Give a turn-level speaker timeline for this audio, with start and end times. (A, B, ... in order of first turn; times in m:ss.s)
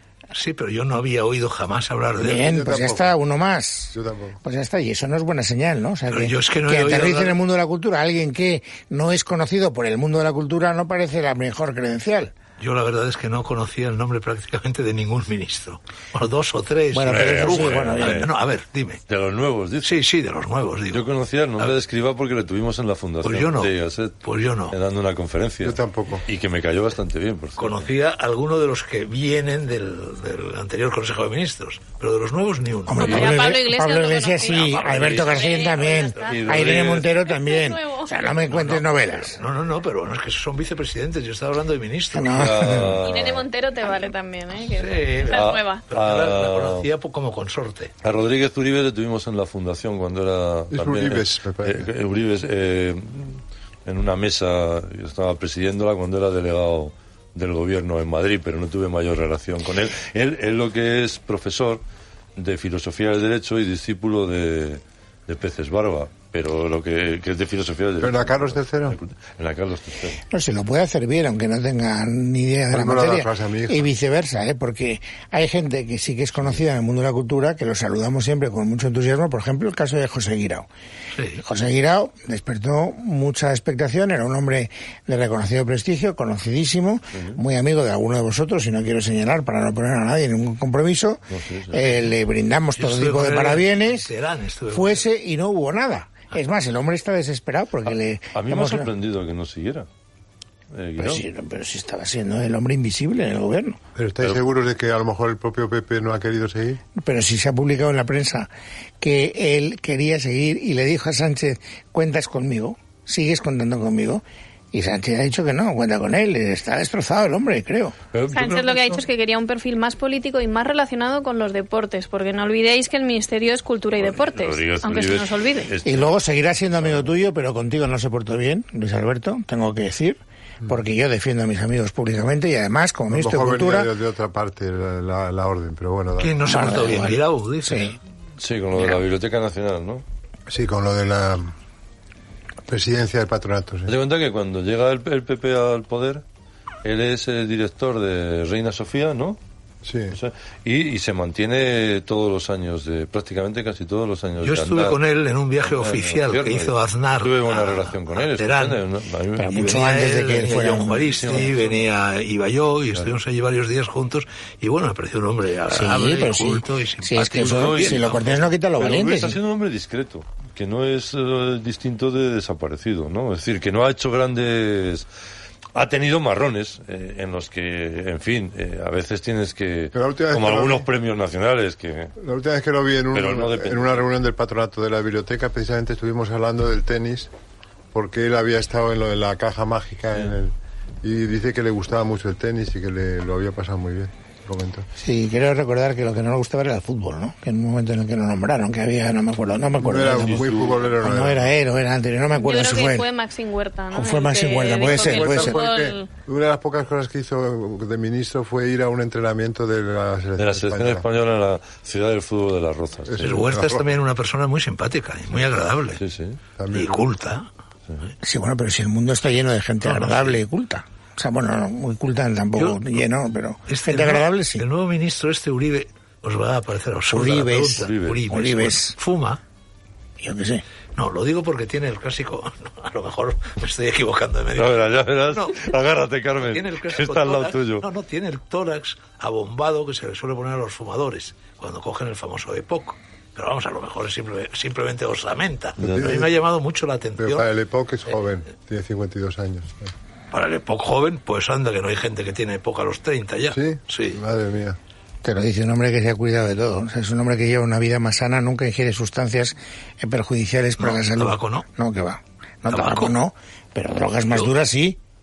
0:00.3-0:02.5 A
0:02.2-0:12.3 B
0:02.3-0:03.1 C
0:03.9-0:04.4 C
0:06.1-0:07.4 A
0:12.6-0:19.0 A
0:16.9-0:18.3 B
0:17.1-0:18.3 D
0:19.1-0:19.9 D
0:19.8-0:21.0 A
0:20.9-0:27.9 D
0:23.2-0:24.8 A
0:25.6-0:26.2 C
0:27.6-0:33.3 A
0:32.9-0:39.4 B
0:33.0-0:36.5 E
0:34.5-0:36.9 A
0:36.2-0:37.1 D
0:37.3-0:38.3 E
0:38.5-0:42.9 A
0:42.1-0:43.0 B
0:42.3-0:43.5 D
0:43.0-0:45.8 E
0:44.7-0:47.9 A
0:45.3-0:46.9 D
0:48.0-1:01.8 D
0:50.7-0:51.9 C
1:02.4-1:10.2 D
1:08.0-1:09.0 C
1:10.3-1:20.7 B
1:12.7-1:13.9 C
1:21.1-1:21.4 A
1:21.4-1:34.1 B
1:27.1-1:27.4 D
1:31.3-1:32.0 D
1:32.8-1:35.1 A
1:34.7-1:38.9 B
1:38.3-1:39.9 D
1:40.7-1:41.2 D
1:41.0-1:43.8 B
1:44.0-1:46.8 C
1:47.0-1:48.5 B
1:49.0-1:58.0 B
1:58.1-1:59.0 D
1:58.3-2:05.7 E
2:04.0-2:06.1 D
2:05.8-2:13.9 B
2:06.8-2:07.1 D
2:13.1-2:16.4 C
2:16.2-2:18.0 A
2:16.4-2:18.0 B
2:18.4-2:20.0 D
2:20.5-2:21.5 C
2:22.7-2:23.9 C
2:23.9-2:26.2 D
2:26.8-2:29.4 D
2:29.8-2:30.2 C
2:30.1-2:35.0 D
2:34.4-2:38.8 A
2:35.7-2:39.8 D
2:39.4-2:41.5 B
2:39.5-2:48.5 A
2:40.9-2:41.7 D
2:45.7-2:49.4 B
2:47.4-2:48.1 D
2:48.8-2:55.1 D
2:55.8-3:02.1 D
2:59.9-3:00.9 C
3:02.2-3:07.3 C
3:03.1-3:04.1 D
3:07.9-3:14.9 C
3:15.0-3:23.1 B
3:19.8-3:21.4 C
3:20.1-3:20.9 D
3:22.4-3:26.1 E
3:23.9-3:25.6 B
3:24.8-3:31.1 C
3:30.4-3:33.4 D
3:33.1-3:33.9 C
3:33.2-3:36.0 A
3:36.0-3:36.4 D
3:36.6-3:37.0 C
3:36.7-3:37.5 A
3:38.2-3:44.6 B
3:39.8-3:40.4 A
3:42.6-3:42.9 A
3:43.7-3:49.4 A
3:47.1-3:49.0 B
3:47.8-3:48.2 D
3:50.2-3:50.6 B
3:51.0-3:55.7 A
3:54.6-3:57.9 D
3:56.4-4:07.5 A
4:05.8-4:06.1 D
4:05.8-4:06.3 C
4:07.2-4:09.9 C
4:10.3-4:14.2 A
4:13.5-4:14.8 C
4:15.2-4:25.0 B
4:20.8-4:21.7 A
4:22.7-4:23.2 A